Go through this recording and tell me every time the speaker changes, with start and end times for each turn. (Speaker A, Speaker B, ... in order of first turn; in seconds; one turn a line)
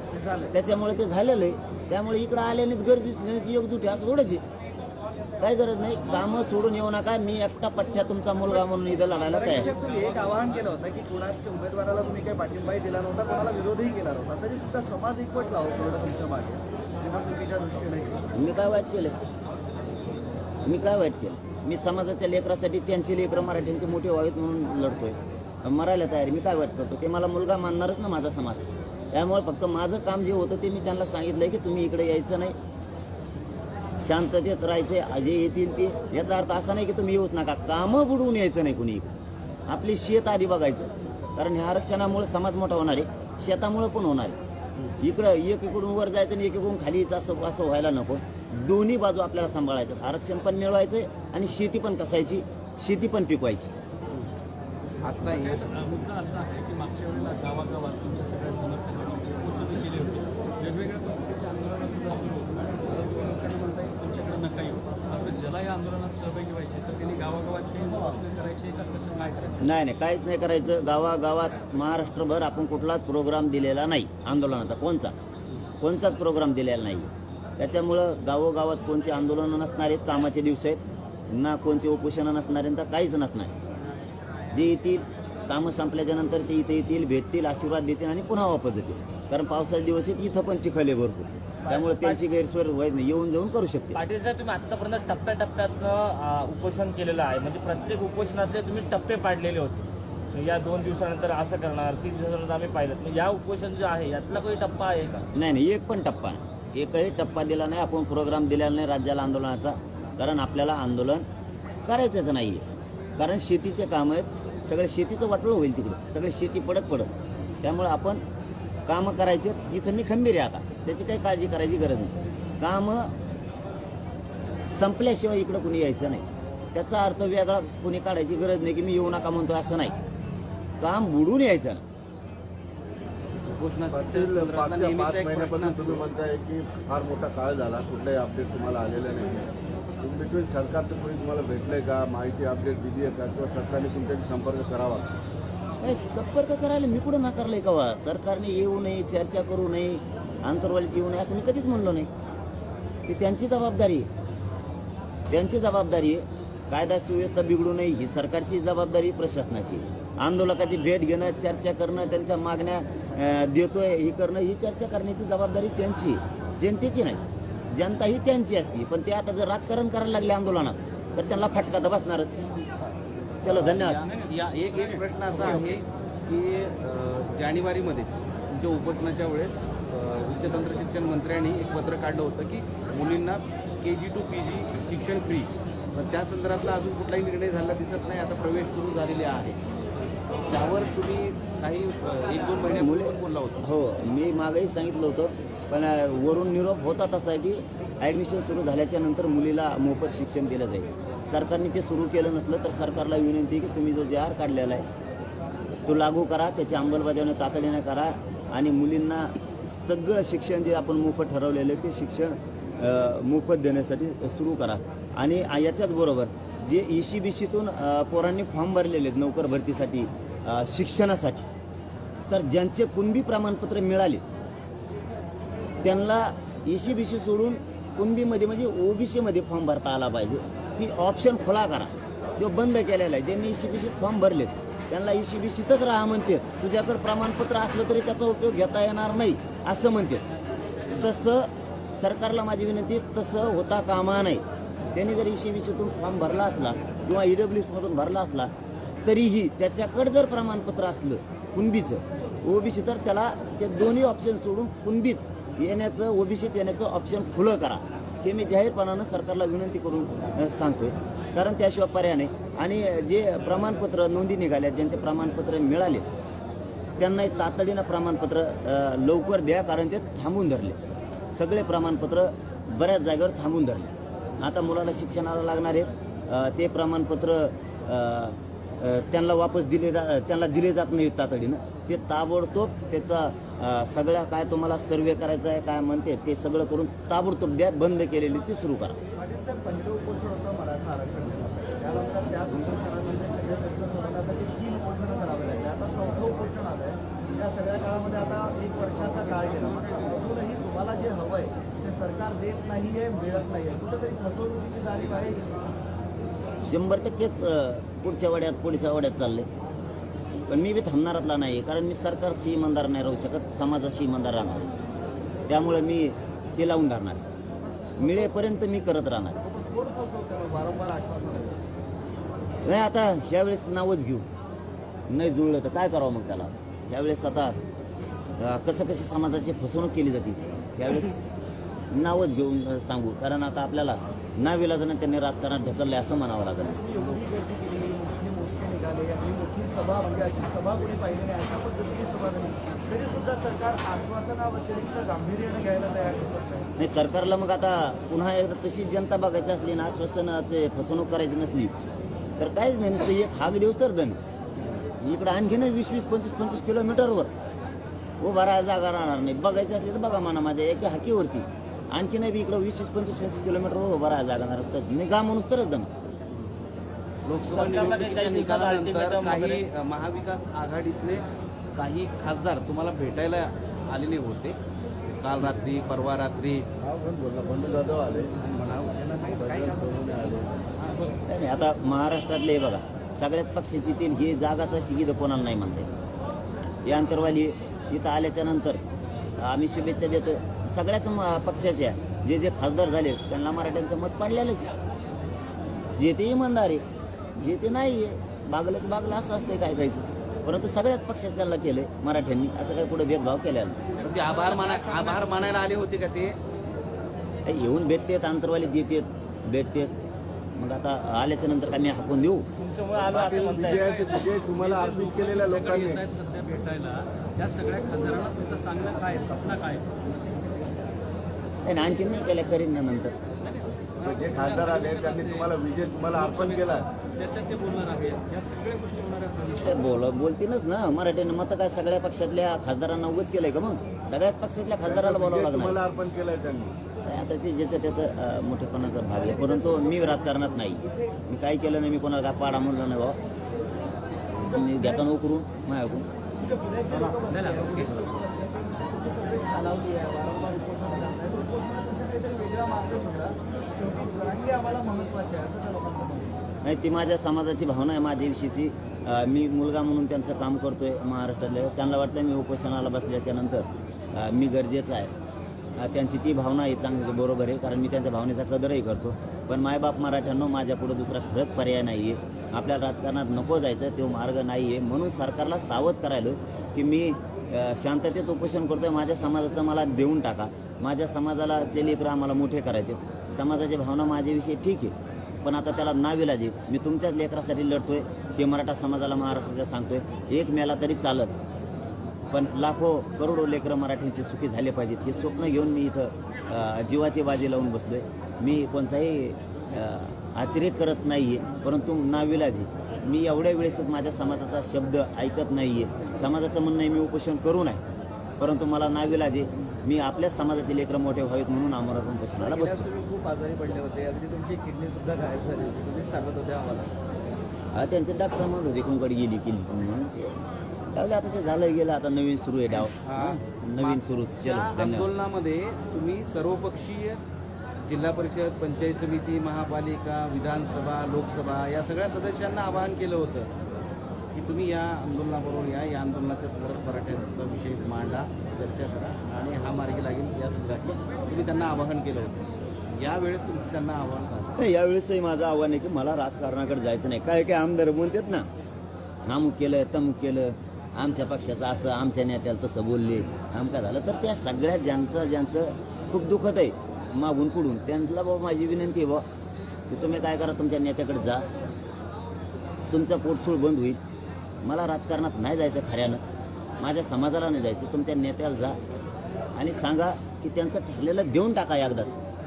Speaker A: 0.1-0.5
Speaker B: 0.5-4.4
Speaker B: 5.4-9.7
Speaker A: 9.3-18.2
Speaker C: 9.4-10.6
Speaker B: 18.3-19.2
Speaker B: 20.6-32.5
Speaker B: 34.0-39.1
Speaker B: 39.7-44.4
Speaker B: 45.0-53.7
Speaker D: 55.0-55.6
Speaker C: 55.2-69.8
Speaker B: 69.6-75.2
Speaker B: 75.8-83.5
Speaker B: 84.5-94.0
Speaker E: 91.7-92.2
Speaker E: 93.9-105.2
Speaker B: 105.3-111.2
Speaker B: 111.8-112.6
Speaker B: 113.2-117.1
Speaker B: 117.6-118.2
Speaker B: 118.9-123.1
Speaker B: 124.7-129.9
Speaker B: 130.8-131.8
Speaker D: 133.5-136.1
Speaker F: 133.9-145.1
Speaker B: 145.8-152.1
Speaker B: 153.1-154.1
Speaker B: 155.3-172.4
Speaker B: 173.4-174.0
Speaker D: 173.4-189.6
Speaker C: 174.0-175.4
Speaker D: 190.5-193.6
Speaker B: 192.7-204.8
Speaker B: 205.9-221.5
Speaker B: 222.3-224.2
Speaker B: 225.8-240.2
Speaker B: 240.9-244.4
Speaker B: 244.9-248.5
Speaker B: 249.1-266.1
Speaker B: 267.0-270.8
Speaker B: 271.4-289.0
Speaker A: 289.2-305.6
Speaker C: 299.4-300.1
Speaker B: 306.6-309.5
Speaker B: 310.5-314.7
Speaker B: 315.5-317.2
Speaker B: 318.0-319.4
Speaker A: 319.4-321.6
Speaker B: 322.6-324.3
Speaker B: 325.1-327.6
Speaker B: 328.4-331.2
Speaker B: 331.9-336.8
Speaker A: 336.8-346.7
Speaker B: 346.8-351.7
Speaker B: 352.4-354.2
Speaker B: 355.0-357.3
Speaker B: 358.2-365.9
Speaker D: 367.3-371.2
Speaker E: 367.4-369.6
Speaker D: 371.8-376.6
Speaker F: 376.8-378.3
Speaker A: 378.3-379.9
Speaker F: 379.4-380.5
Speaker B: 381.3-385.9
Speaker B: 386.9-388.8
Speaker B: 389.4-394.7
Speaker B: 396.0-396.8
Speaker B: 397.4-403.8
Speaker C: 404.0-405.7
Speaker D: 404.0-406.4
Speaker B: 407.5-409.9
Speaker B: 410.6-412.5
Speaker E: 412.6-414.0
Speaker F: 413.0-416.0
Speaker C: 413.9-420.0
Speaker B: 421.6-423.1
Speaker C: 423.4-425.6
Speaker F: 424.0-426.9
Speaker C: 426.1-429.8
Speaker B: 429.6-435.8
Speaker F: 434.8-436.8
Speaker B: 437.1-443.2
Speaker B: 444.4-446.1
Speaker A: 446.4-456.4
Speaker C: 447.3-448.1
Speaker B: 456.6-465.1
Speaker B: 465.8-491.3
Speaker B: 492.3-507.8
Speaker B: 508.4-512.9
Speaker A: 512.4-516.9
Speaker B: 517.7-520.4
Speaker B: 520.9-525.1
Speaker D: 523.0-527.2
Speaker D: 527.9-533.5
Speaker D: 534.3-544.7
Speaker B: 544.6-548.5
Speaker B: 549.3-559.2
Speaker B: 559.9-561.5
Speaker B: 562.9-564.0
Speaker B: 564.6-566.3
Speaker B: 566.8-568.8
Speaker B: 569.6-572.2